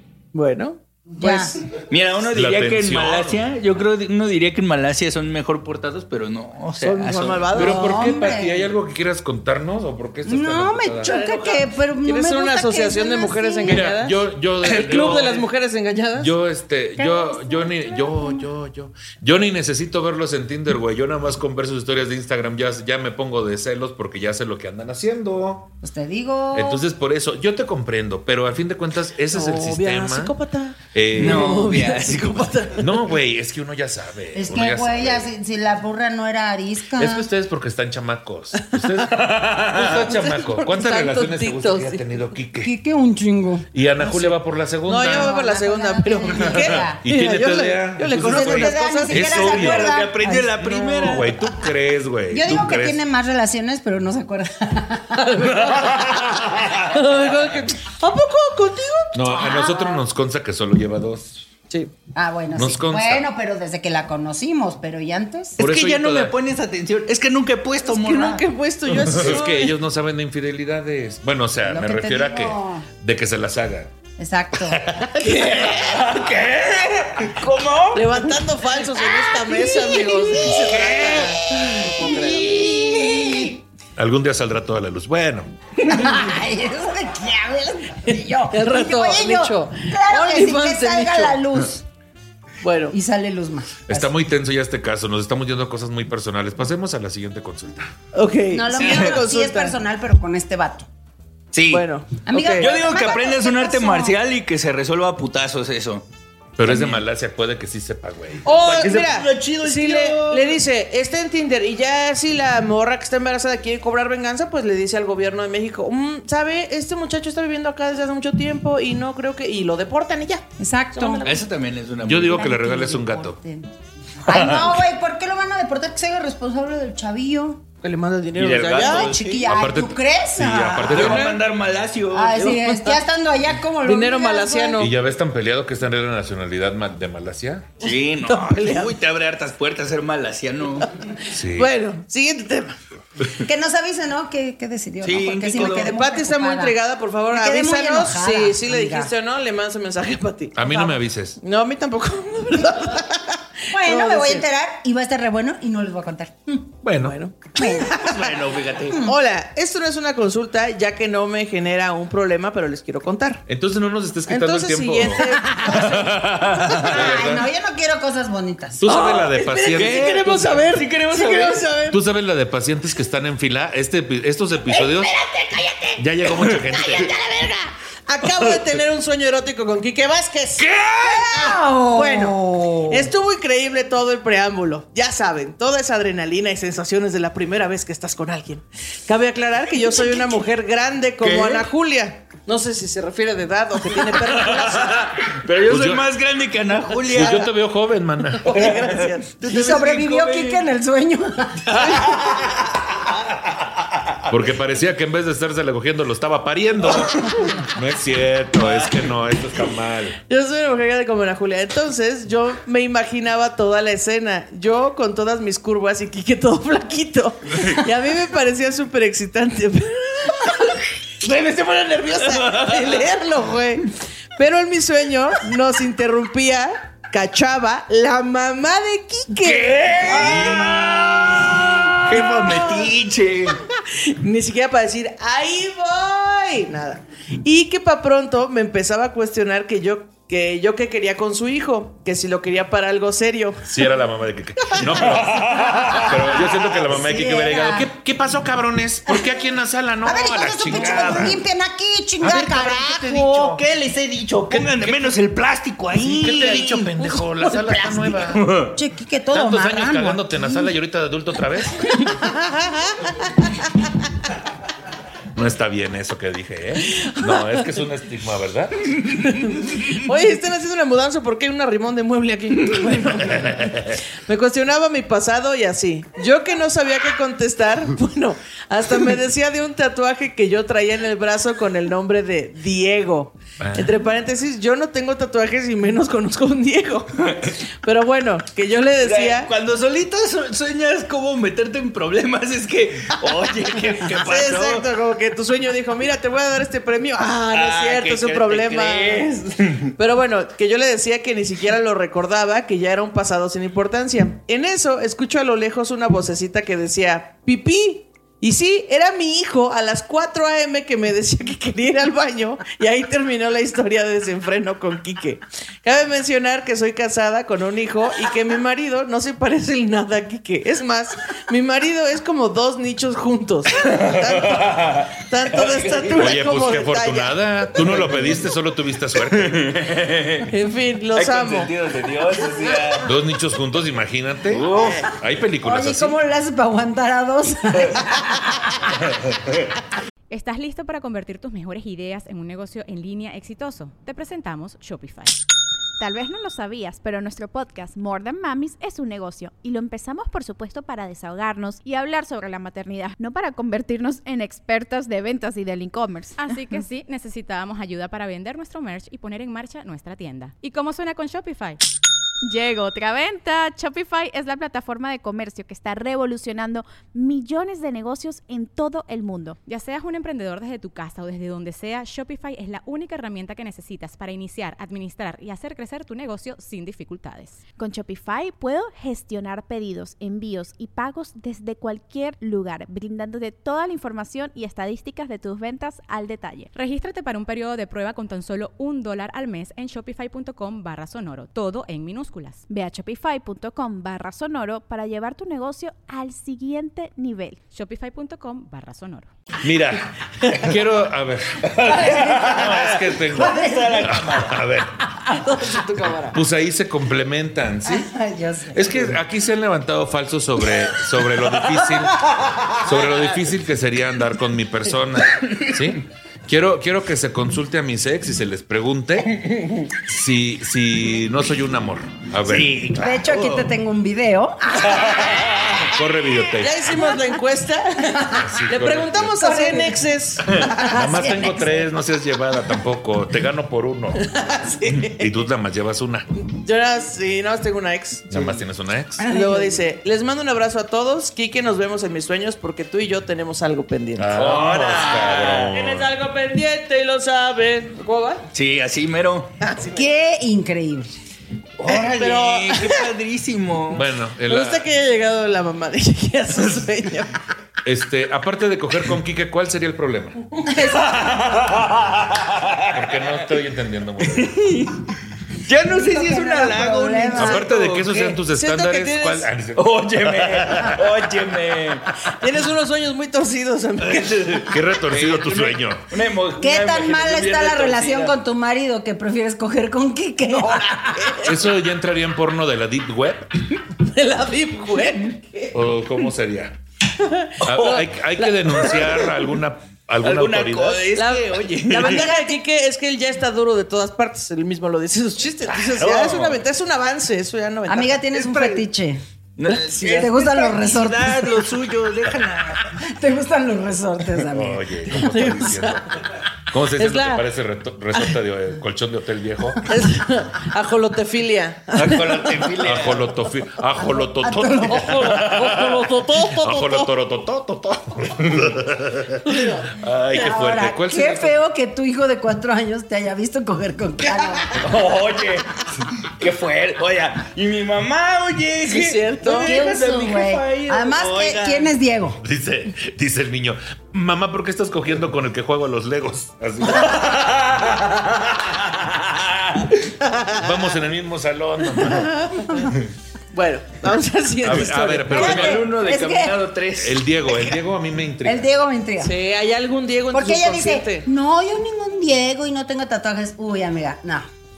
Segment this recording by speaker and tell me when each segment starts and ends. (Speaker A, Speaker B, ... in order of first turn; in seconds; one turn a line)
Speaker A: 0.3-1.5
Speaker B: 1.2-1.6
Speaker C: 1.9-7.6
Speaker D: 2.3-3.5
Speaker A: 6.8-8.0
Speaker B: 7.5-8.7
Speaker D: 7.5-11.1
Speaker B: 10.2-13.8
Speaker A: 11.0-16.3
Speaker D: 13.6-15.4
Speaker C: 14.6-15.4
Speaker D: 16.2-25.7
Speaker B: 17.0-18.5
Speaker B: 25.8-26.8
Speaker D: 26.5-30.3
Speaker A: 29.3-32.9
Speaker D: 30.9-31.6
Speaker C: 31.1-32.6
Speaker D: 32.8-35.3
Speaker B: 34.3-37.3
Speaker D: 37.0-42.7
Speaker C: 39.7-40.0
Speaker A: 39.9-42.0
Speaker B: 42.6-43.7
Speaker D: 43.7-45.3
Speaker A: 44.0-44.3
Speaker A: 44.9-49.4
Speaker B: 45.0-47.0
Speaker D: 46.4-49.9
Speaker B: 48.1-51.4
Speaker C: 49.1-51.4
Speaker D: 50.7-53.0
Speaker B: 52.3-55.4
Speaker A: 55.1-56.3
Speaker C: 55.5-56.0
Speaker A: 56.9-59.2
Speaker D: 59.1-61.5
Speaker B: 59.3-60.0
Speaker B: 62.1-65.6
Speaker D: 62.5-63.2
Speaker C: 65.6-69.4
Speaker D: 65.6-66.3
Speaker A: 67.9-69.7
Speaker D: 69.0-73.9
Speaker B: 71.6-72.9
Speaker B: 74.2-75.0
Speaker D: 74.7-75.1
Speaker C: 75.2-78.4
Speaker A: 75.2-76.0
Speaker A: 77.9-82.6
Speaker B: 79.4-80.5
Speaker C: 80.3-83.6
Speaker B: 82.5-83.5
Speaker D: 84.0-85.5
Speaker B: 85.8-91.8
Speaker A: 88.5-91.4
Speaker A: 92.6-93.0
Speaker B: 92.9-94.1
Speaker D: 93.8-97.9
Speaker A: 98.1-99.8
Speaker B: 98.5-100.9
Speaker C: 98.7-99.2
Speaker C: 101.5-101.9
Speaker A: 101.7-102.8
Speaker B: 102.2-104.2
Speaker C: 102.6-106.0
Speaker D: 106.6-108.5
Speaker C: 106.6-107.0
Speaker A: 108.4-121.3
Speaker C: 108.5-110.6
Speaker B: 120.6-121.4
Speaker C: 121.2-122.5
Speaker D: 122.0-123.4
Speaker B: 122.2-127.6
Speaker C: 124.3-124.8
Speaker A: 127.8-129.2
Speaker C: 128.3-129.5
Speaker B: 128.8-131.3
Speaker D: 129.4-131.3
Speaker C: 130.9-132.7
Speaker A: 131.0-131.3
Speaker B: 132.1-134.9
Speaker A: 133.8-134.9
Speaker D: 134.8-137.7
Speaker C: 137.8-140.9
Speaker A: 138.2-138.9
Speaker D: 141.3-141.7
Speaker A: 141.5-142.8
Speaker B: 143.4-146.8
Speaker C: 145.0-145.9
Speaker A: 145.5-154.4
Speaker B: 147.3-149.1
Speaker D: 150.6-151.4
Speaker B: 153.7-156.7
Speaker D: 156.8-157.2
Speaker A: 157.0-157.5
Speaker B: 157.5-159.1
Speaker C: 157.8-159.1
Speaker A: 159.0-163.4
Speaker D: 163.5-165.2
Speaker A: 164.3-166.1
Speaker B: 165.2-168.9
Speaker D: 165.8-167.5
Speaker C: 165.8-167.2
Speaker D: 168.8-170.2
Speaker C: 168.9-171.6
Speaker A: 168.9-172.0
Speaker D: 171.9-175.1
Speaker A: 175.3-175.9
Speaker D: 176.0-177.1
Speaker C: 176.3-176.8
Speaker A: 177.0-180.7
Speaker C: 178.2-178.6
Speaker C: 180.6-181.3
Speaker B: 181.0-183.1
Speaker A: 181.3-195.1
Speaker B: 189.8-190.4
Speaker C: 191.2-191.7
Speaker C: 193.9-197.5
Speaker D: 195.7-196.1
Speaker D: 197.1-198.7
Speaker A: 198.4-199.4
Speaker C: 198.4-200.6
Speaker B: 199.4-202.3
Speaker C: 201.7-204.2
Speaker D: 204.3-210.2
Speaker A: 210.3-232.9
Speaker C: 221.2-221.5
Speaker C: 222.1-223.1
Speaker C: 229.4-233.6
Speaker A: 233.8-243.7
Speaker D: 243.7-251.4
Speaker C: 244.9-246.5
Speaker B: 246.5-247.9
Speaker B: 250.0-253.5
Speaker C: 250.7-251.3
Speaker D: 252.2-253.6
Speaker C: 253.3-256.9
Speaker D: 254.5-255.1
Speaker D: 255.9-258.4
Speaker C: 257.8-258.7
Speaker B: 258.6-260.7
Speaker D: 259.3-262.0
Speaker A: 262.0-263.5
Speaker D: 265.3-269.0
Speaker A: 266.9-267.4
Speaker A: 269.2-287.1
Speaker D: 273.3-274.0
Speaker D: 283.6-284.0
Speaker C: 287.2-287.6
Speaker A: 287.8-289.5
Speaker C: 289.0-294.9
Speaker A: 294.1-299.2
Speaker C: 297.5-299.9
Speaker A: 300.0-327.3
Speaker C: 323.8-326.4
Speaker D: 326.2-329.7
Speaker C: 327.8-328.5
Speaker C: 329.2-330.5
Speaker A: 330.5-331.7
Speaker C: 331.1-333.1
Speaker D: 333.0-336.2
Speaker C: 334.5-335.1
Speaker B: 335.6-338.9
Speaker E: 340.3-345.4
Speaker F: 346.0-356.5
Speaker E: 356.4-361.8
Speaker F: 362.4-369.6
Speaker E: 369.6-377.6
Speaker F: 377.8-386.7
Speaker E: 386.7-392.6
Speaker F: 392.7-397.6
Speaker E: 397.7-399.3
Speaker D: 399.6-405.1
Speaker C: 401.6-404.6
Speaker B: 401.9-404.1
Speaker A: 405.2-406.4
Speaker D: 406.3-408.1
Speaker B: 407.8-409.1
Speaker D: 408.7-419.4
Speaker C: 419.4-419.9
Speaker D: 420.0-422.9
Speaker C: 422.4-423.7
Speaker B: 422.9-425.6
Speaker C: 424.8-425.9
Speaker D: 425.9-427.0
Speaker A: 426.6-431.2
Speaker B: 428.1-428.5
Speaker D: 428.3-429.4
Speaker B: 429.4-430.0
Speaker D: 430.6-434.3
Speaker B: 430.7-431.9
Speaker A: 434.2-435.3
Speaker D: 434.9-436.4
Speaker A: 436.5-438.3
Speaker D: 438.3-439.2
Speaker C: 438.3-438.6
Speaker B: 439.2-439.9
Speaker A: 439.2-444.3
Speaker D: 444.2-446.1
Speaker C: 444.3-445.7
Speaker A: 445.7-448.4
Speaker C: 448.5-449.5
Speaker A: 449.6-450.0
Speaker B: 449.8-451.1
Speaker C: 451.8-454.1
Speaker A: 451.9-453.0
Speaker D: 453.9-454.9
Speaker A: 454.5-457.4
Speaker D: 457.8-460.4
Speaker C: 460.7-463.4
Speaker D: 462.9-464.6
Speaker C: 464.2-465.1
Speaker C: 465.6-468.4
Speaker B: 465.8-467.7
Speaker D: 467.4-471.1
Speaker A: 468.5-469.5
Speaker C: 469.8-472.1
Speaker A: 472.4-474.6
Speaker C: 474.0-478.3
Speaker D: 474.7-476.1
Speaker B: 476.6-481.4
Speaker A: 480.6-481.5
Speaker D: 481.4-483.6
Speaker A: 483.9-485.8
Speaker D: 485.7-486.8
Speaker A: 487.1-489.3
Speaker D: 487.6-491.1
Speaker C: 490.2-492.3
Speaker A: 491.1-498.3
Speaker B: 492.1-492.6
Speaker C: 495.6-496.6
Speaker B: 497.9-499.2
Speaker C: 498.4-498.8
Speaker C: 499.6-503.0
Speaker B: 499.9-501.7
Speaker B: 502.9-505.2
Speaker D: 504.5-509.9
Speaker A: 505.1-506.2
Speaker A: 507.0-507.4
Speaker A: 509.8-512.5
Speaker C: 511.9-513.3
Speaker D: 512.8-521.6
Speaker B: 514.0-515.3
Speaker A: 514.9-517.1
Speaker A: 519.4-520.0
Speaker B: 520.3-524.8
Speaker C: 524.7-525.7
Speaker C: 526.4-531.9
Speaker A: 528.9-529.7
Speaker B: 529.5-532.4
Speaker D: 532.4-538.0
Speaker C: 536.9-540.0
Speaker A: 540.2-540.6
Speaker D: 540.5-542.5
Speaker A: 542.0-542.9
Speaker A: 543.5-545.4
Speaker D: 544.6-545.9
Speaker B: 545.3-546.7
Speaker C: 545.3-547.3
Speaker D: 547.0-548.7
Speaker B: 548.4-549.3
Speaker A: 549.2-551.3
Speaker B: 550.3-554.5